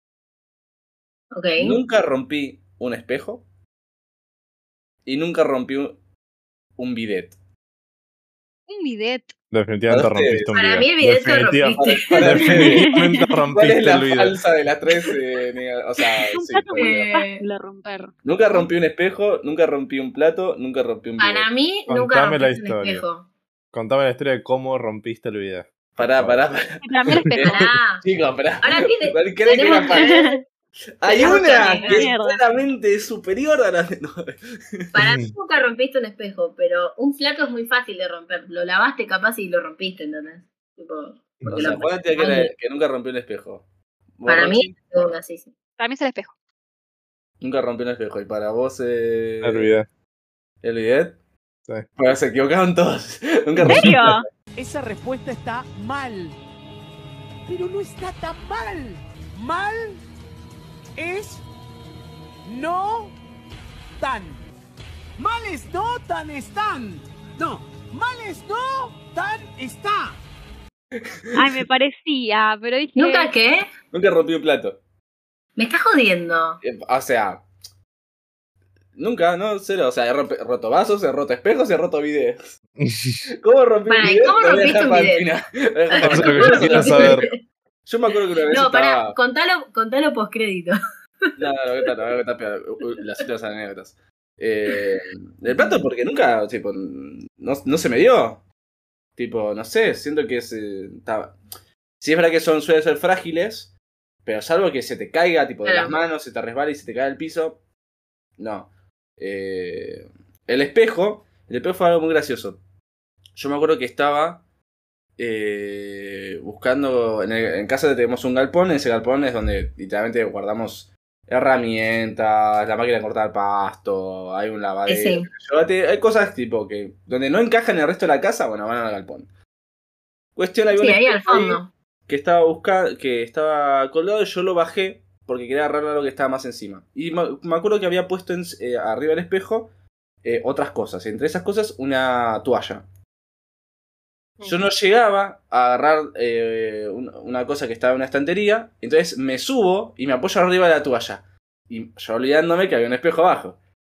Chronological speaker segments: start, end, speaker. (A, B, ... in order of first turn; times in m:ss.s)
0:01.3-0:01.8 A
0:01.6-0:03.4 B
0:05.0-0:06.0 B
0:06.8-0:07.4 B
0:08.7-0:09.3 C
0:09.5-0:14.4 D
0:09.9-0:10.5 B
0:10.5-0:12.6 A
0:11.8-0:12.9 B
0:12.7-0:13.2 C
0:13.5-0:17.1 B
0:16.3-0:18.1 C
0:16.8-0:17.4 A
0:18.2-0:21.5 B
0:21.2-0:23.3 A
0:21.9-0:23.1 D
0:23.7-0:26.4 D
0:26.0-0:30.2 B
0:26.8-0:27.6 C
0:27.4-0:28.0 A
0:28.6-0:30.4 A
0:29.6-0:30.4 C
0:31.0-0:34.4 B
0:31.1-0:32.1 A
0:31.2-0:32.4 C
0:34.9-0:42.5 A
0:35.0-0:35.3 D
0:41.4-0:41.8 D
0:41.5-0:43.6 B
0:44.2-0:44.8 B
0:44.3-0:45.5 A
0:45.8-0:46.3 C
0:47.4-0:49.8 B
0:49.4-0:49.9 D
0:50.6-0:51.2 B
0:52.0-0:54.2 B
0:53.6-0:54.1 D
0:53.6-0:54.2 C
0:54.6-0:56.4 E
0:57.5-1:00.0 E
1:01.0-1:01.4 E
1:02.4-1:03.2 E
1:04.0-1:04.4 E
1:05.2-1:10.2 E
1:11.3-1:11.6 B
1:11.3-1:13.3 C
1:13.0-1:13.7 A
1:13.9-1:14.8 B
1:15.6-1:16.6 A
1:16.6-1:17.4 B
1:19.0-1:22.6 B
1:22.8-1:23.2 D
1:23.4-1:27.2 B
1:23.9-1:25.2 A
1:25.9-1:27.3 A
1:26.0-1:27.3 D
1:27.8-1:29.2 B
1:28.5-1:30.8 A
1:31.4-1:38.4 B
1:35.5-1:35.8 A
1:39.2-1:41.4 B
1:42.0-1:43.7 B
1:44.2-1:47.6 B
1:45.6-1:46.0 A
1:48.4-1:52.6 B
1:53.4-1:54.4 B
1:55.2-2:09.3 B
2:04.9-2:05.3 A
2:10.4-2:19.7 B
2:10.8-2:11.7 A
2:20.2-2:22.8 B
2:24.4-2:33.6 B